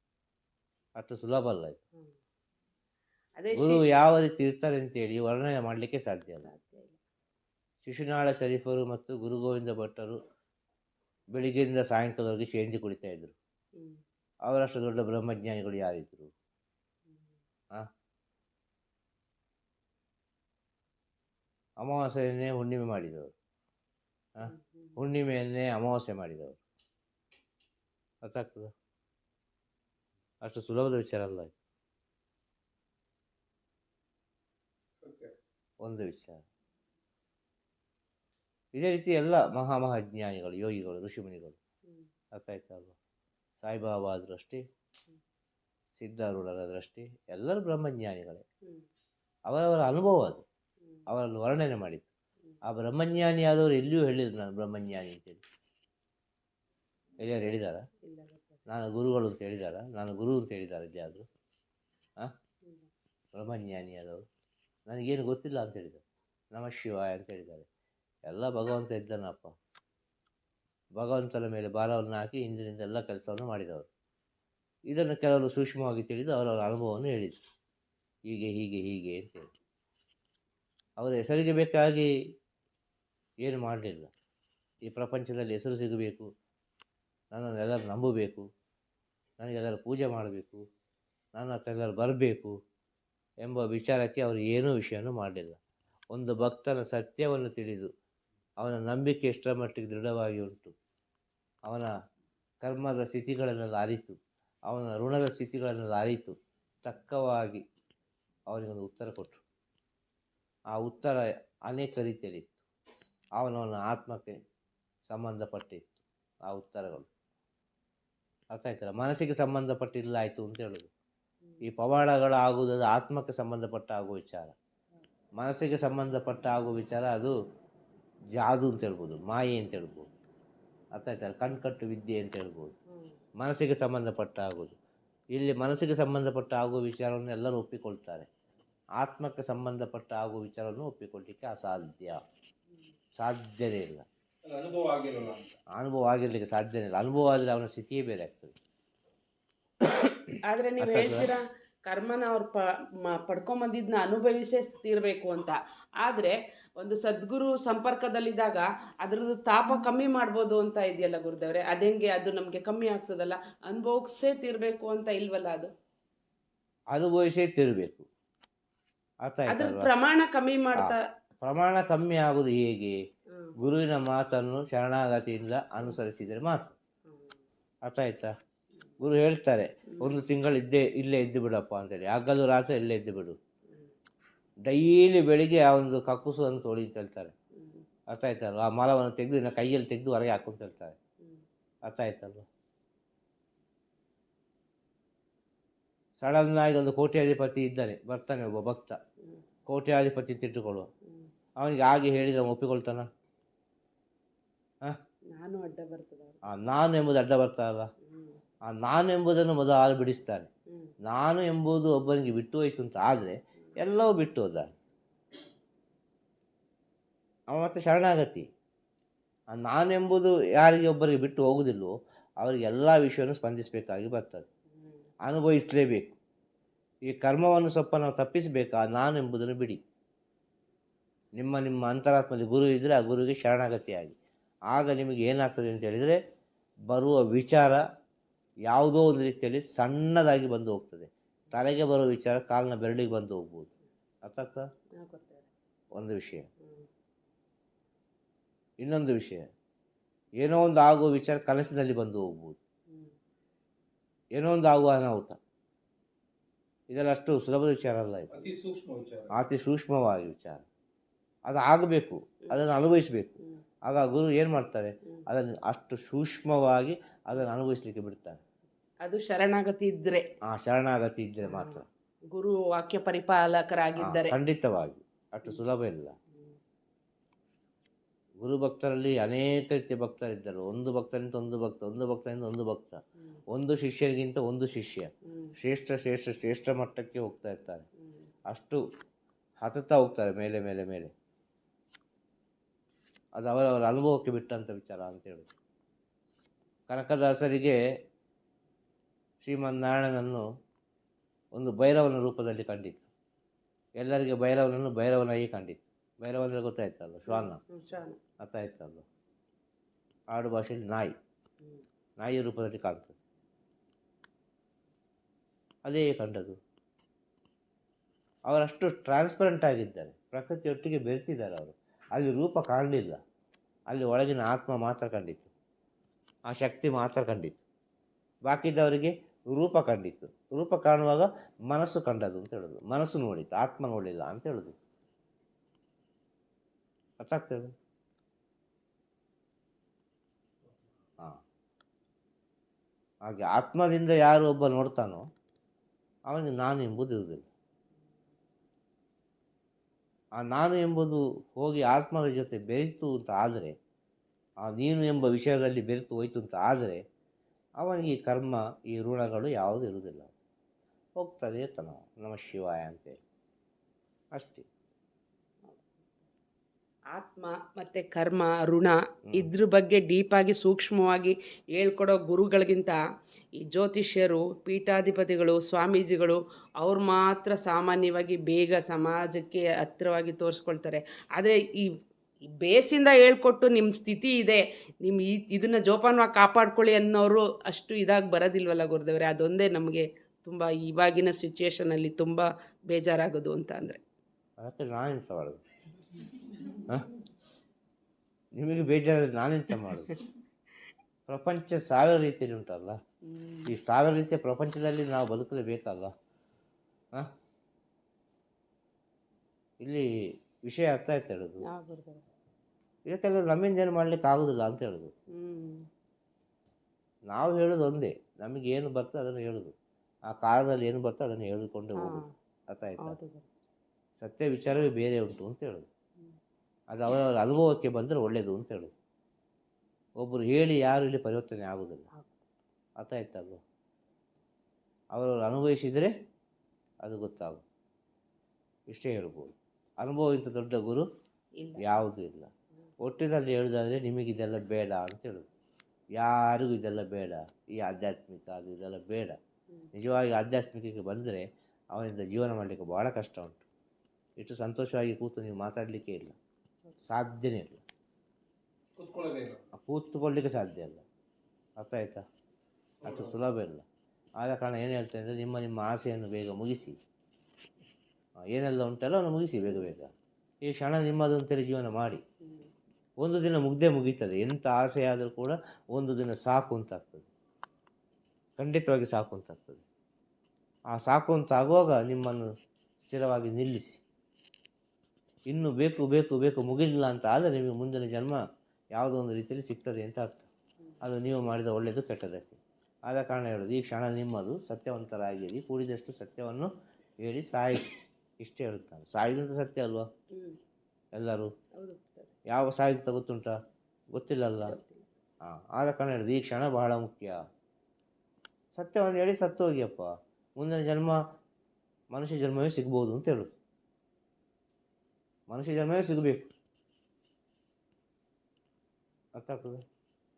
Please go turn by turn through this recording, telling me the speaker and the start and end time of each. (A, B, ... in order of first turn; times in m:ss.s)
0:01.0-0:01.8 A
0:03.4-0:03.8 B
0:03.6-0:06.5 A
0:06.4-0:07.0 B
0:07.8-0:10.2 A
0:11.4-0:13.4 A
0:14.5-0:16.3 A
0:21.8-0:23.3 A
0:24.4-0:26.6 A
0:24.4-0:25.0 B
0:28.2-0:28.7 A
0:30.4-0:31.5 A
0:35.0-0:35.3 C
0:35.8-0:36.4 A
0:38.7-0:41.6 A
0:42.4-0:43.0 A
0:43.6-0:44.6 A
0:46.0-0:48.4 A
0:49.5-0:50.4 A
0:51.1-0:52.1 A
0:52.6-0:55.4 A
0:57.2-0:57.8 A
0:58.0-0:58.6 B
0:58.7-1:01.3 A
1:03.3-1:04.2 A
1:04.9-1:07.7 A
1:08.3-1:09.5 A
1:11.0-1:13.9 A
1:14.9-1:17.4 A
1:18.3-1:19.5 A
1:21.0-1:22.1 A
1:23.4-1:24.1 A
1:24.9-1:26.3 A
1:27.3-1:28.5 A
1:29.4-1:30.6 A
1:31.4-1:32.6 A
1:33.4-1:35.6 A
1:36.1-1:37.9 A
1:38.6-1:40.8 A
1:41.7-1:41.9 A
1:42.6-1:47.6 A
1:48.5-1:49.4 A
1:50.7-1:52.6 A
1:53.4-1:54.4 A
1:55.1-1:57.1 A
1:58.5-2:00.9 A
2:01.6-2:04.6 A
2:05.4-2:07.4 A
2:08.4-2:10.1 A
2:11.0-2:12.7 A
2:13.4-2:14.8 A
2:15.4-2:18.3 A
2:19.0-2:22.2 A
2:23.2-2:24.1 A
2:24.4-2:25.6 C
2:25.8-2:28.6 A
2:30.4-2:45.7 B
2:30.8-2:31.3 A
2:46.9-2:48.1 A
2:49.3-2:49.9 A
2:49.5-2:51.0 B
2:50.8-2:53.0 A
2:53.6-2:56.8 A
2:57.1-2:57.4 B
2:57.8-2:58.3 A
2:59.0-3:03.4 A
2:59.9-3:00.2 B
3:04.7-3:07.3 A
3:07.6-3:07.9 B
3:08.1-3:11.0 A
3:11.8-3:12.5 A
3:16.2-3:19.0 A
3:19.7-3:20.9 A
3:21.6-3:23.1 A
3:25.3-3:26.4 B
3:26.4-3:27.9 A
3:28.0-3:28.4 B
3:28.6-3:30.5 A
3:31.0-3:34.7 A
3:37.5-3:38.5 A
3:39.5-3:44.5 A
3:45.2-3:46.2 A
3:47.1-3:49.8 A
3:51.4-3:54.2 A
3:54.7-3:56.2 A
3:56.9-3:57.8 A
3:58.7-4:03.7 A
4:04.2-4:04.7 A
4:05.0-4:05.5 B
4:05.9-4:06.5 A
4:06.6-4:06.9 B
4:08.8-4:09.4 A
4:10.4-4:12.6 A
4:14.4-4:15.4 A
4:16.9-4:18.4 A
4:18.3-4:19.3 C
4:19.3-4:20.6 A
4:21.5-4:28.4 A
4:29.0-4:30.2 B
4:30.4-4:31.8 A
4:31.4-4:31.8 B
4:32.3-4:34.4 B
4:34.0-4:36.2 A
4:38.4-4:47.8 A
4:45.3-4:45.5 B
4:48.5-4:48.8 A
4:49.6-4:51.1 A
4:53.4-4:55.5 A
4:56.9-4:57.8 A
4:59.4-5:00.4 A
5:01.6-5:03.1 A
5:04.0-5:07.6 A
5:07.3-5:08.2 B
5:08.4-5:09.1 A
5:10.3-5:11.1 A
5:12.2-5:13.2 A
5:15.9-5:16.6 A
5:18.5-5:23.2 A
5:23.9-5:25.5 A
5:26.5-5:27.6 A
5:28.5-5:34.8 A
5:37.2-5:37.7 A
5:43.3-5:45.2 A
5:46.3-5:47.5 A
5:50.4-5:53.8 A
5:54.6-5:57.0 A
5:57.8-6:00.3 A
6:01.2-6:03.2 A
6:04.4-6:04.7 A
6:05.7-6:06.2 B
6:07.1-6:13.0 B
6:13.6-6:21.9 B
6:22.5-6:34.0 B
6:34.6-6:35.6 A
6:38.6-6:40.2 A
6:41.3-6:43.0 A
6:43.3-6:43.7 B
6:43.7-6:46.1 A
6:49.8-6:51.6 A
6:51.6-6:52.2 B
6:53.1-6:55.1 A
6:55.3-6:55.9 B
6:57.3-6:59.8 A
7:00.3-7:03.2 A
7:02.0-7:02.3 B
7:03.0-7:03.5 B
7:04.2-7:05.9 A
7:06.9-7:08.9 A
7:10.2-7:12.1 A
7:13.0-7:13.6 A
7:15.1-7:16.1 A
7:17.0-7:17.6 A
7:18.9-7:21.1 A
7:21.6-7:21.9 B
7:21.8-7:22.5 A
7:23.0-7:25.5 A
7:26.2-7:29.4 A
7:29.9-7:33.6 A
7:34.4-7:36.4 A
7:37.0-7:37.8 A
7:39.0-7:39.6 C
7:39.7-7:41.0 A
7:41.8-7:42.2 A
7:43.0-7:43.3 C
7:43.0-7:43.8 A
7:44.4-7:47.0 A
7:48.5-7:50.1 A
7:50.6-7:52.2 A
7:53.2-7:57.3 A
7:58.6-7:59.8 A
8:00.9-8:02.5 A
8:03.0-8:04.0 A
8:05.5-8:08.4 A
8:09.0-8:10.5 A
8:11.0-8:16.7 A
8:17.2-8:17.9 A
8:18.4-8:20.1 A
8:21.2-8:21.5 A
8:21.8-8:22.3 B
8:22.5-8:23.6 A
8:24.1-8:24.8 A
8:24.6-8:25.1 B
8:25.4-8:27.4 A
8:28.8-8:31.2 A
8:32.1-8:33.5 A
8:35.5-8:36.5 A
8:39.4-8:39.8 A